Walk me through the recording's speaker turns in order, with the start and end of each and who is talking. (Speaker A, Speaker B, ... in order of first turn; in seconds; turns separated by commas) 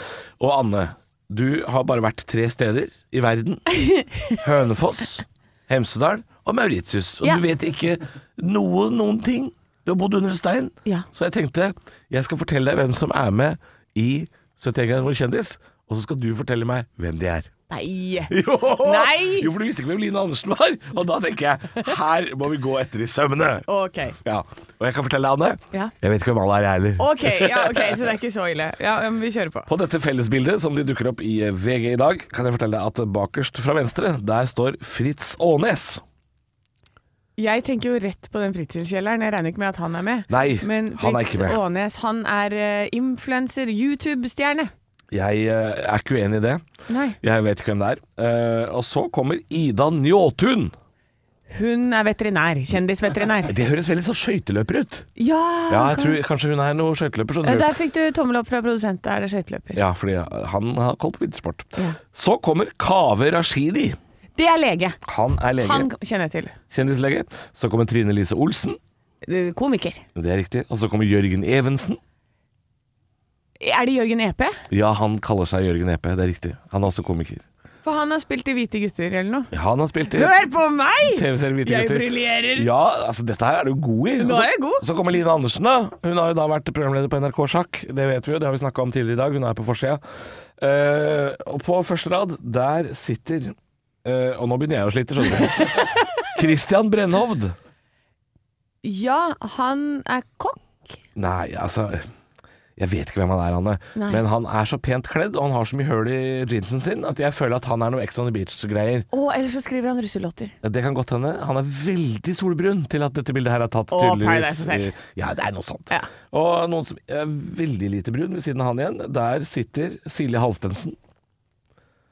Speaker A: 0.4-3.7, Speaker B: 3.8-4.1, Speaker A: 4.3-17.5, Speaker B: 17.7-19.5, Speaker A: 18.3-23.7, Speaker B: 23.7-24.2, Speaker A: 24.2-28.0, Speaker B: 27.0-29.7, Speaker A: 29.7-36.0, Speaker B: 37.4-44.7, Speaker A: 40.3-41.6, Speaker A: 45.1-46.6, Speaker B: 46.9-47.2, Speaker A: 47.2-50.7, Speaker B: 51.5-53.5, Speaker A: 53.4-55.1, Speaker B: 55.2-56.2, Speaker A: 55.7-57.8, Speaker B: 57.4-59.8, Speaker A: 59.7-64.0, Speaker B: 64.4-65.0, Speaker A: 65.0-65.9, Speaker B: 65.6-66.6, Speaker A: 66.7-68.8, Speaker B: 69.2-70.0, Speaker A: 70.2-72.0, Speaker B: 73.6-74.6, Speaker A: 74.7-77.5, Speaker B: 77.8-79.5, Speaker A: 79.5-80.4, Speaker B: 80.1-82.7, Speaker A: 81.0-90.0, Speaker B: 84.2-84.8, Speaker A: 90.6-97.5, Speaker B: 98.8-100.9, Speaker A: 101.2-102.1, Speaker A: 102.8-109.1, Speaker B: 104.0-104.2, Speaker B: 109.1-110.5, Speaker A: 110.6-121.0, Speaker B: 113.9-114.9